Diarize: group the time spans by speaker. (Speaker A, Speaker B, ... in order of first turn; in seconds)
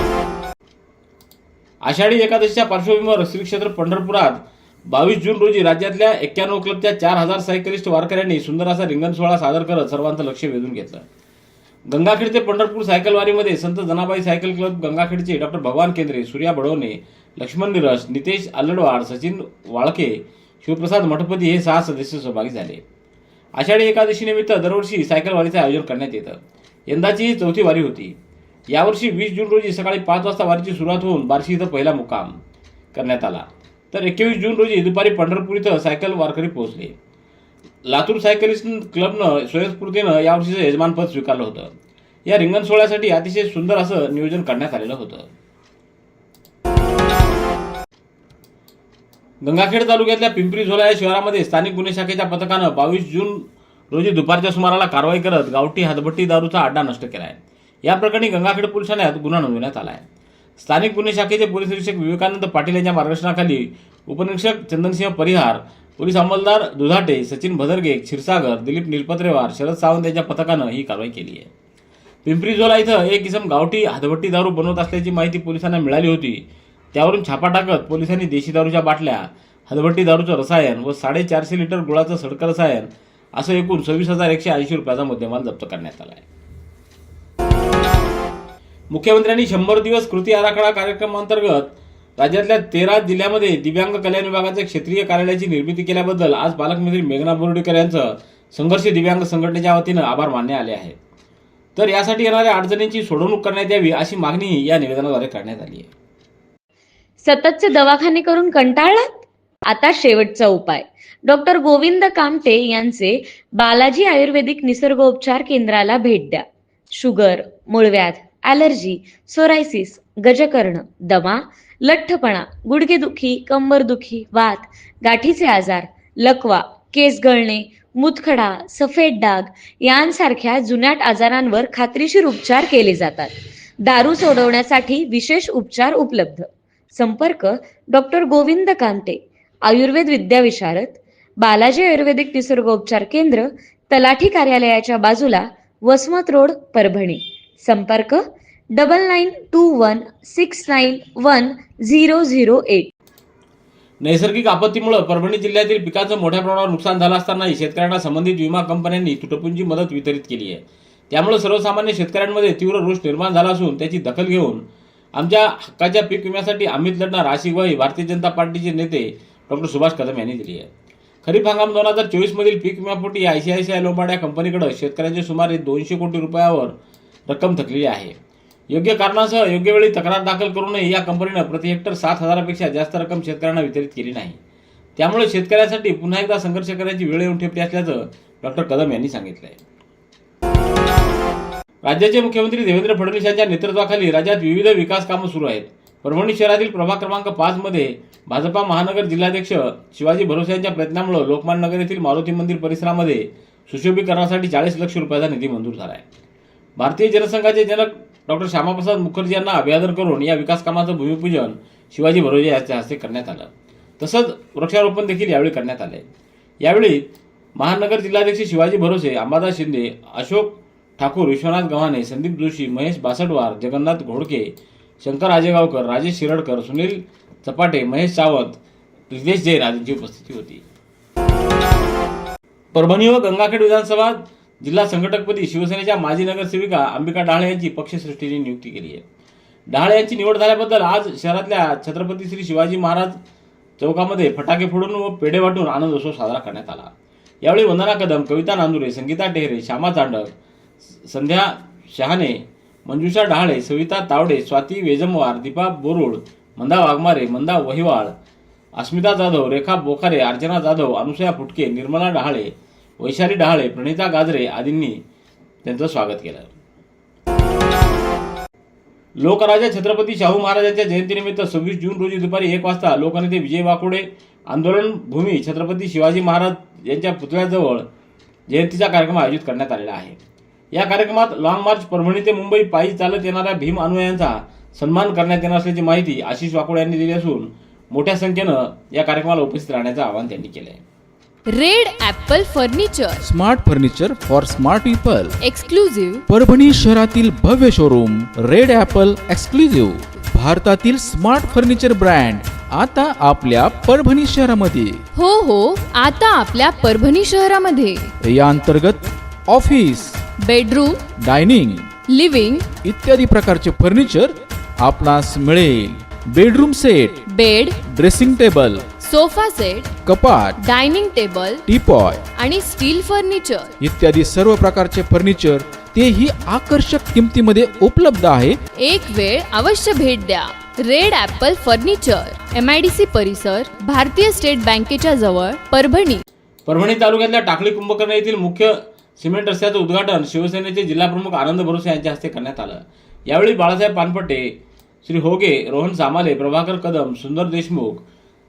Speaker A: 1.8-11.0, 11.9-22.8, 23.6-26.4, 26.9-28.1, 28.7-32.4, 32.9-36.9, 37.9-41.7, 42.2-45.3, 49.4-60.0, 60.6-71.5, 72.2-86.2, 88.9-101.0, 101.8-105.9, 154.0-164.6, 165.1-170.7, 171.2-176.7, 177.3-178.1, 178.7-184.4, 185.0-189.6, 191.8-206.0, 206.8-216.1, 216.6-217.0, 217.6-224.5, 225.0-228.6, 229.1-230.6, 232.7-239.0, 239.7-243.1, 243.8-246.9, 247.4-250.3, 251.0-258.1, 258.8-265.0, 265.6-266.5, 269.2-277.9, 278.5-280.2, 280.7-290.8, 336.6-348.0
Speaker B: 107.2-109.1, 109.7-116.4, 116.9-133.3, 133.8-148.2, 148.7-152.9
Speaker C: 291.5-293.2, 295.4-296.2, 305.1-308.1, 310.4-311.0, 312.0-312.7, 317.2-317.8, 319.0-319.9, 320.6-321.6, 322.3-323.7, 328.7-336.2
Speaker D: 293.2-295.4, 296.3-305.0, 308.2-310.3, 311.1-311.9, 312.8-317.2, 317.8-318.9, 320.0-320.6, 321.7-322.2, 323.8-328.6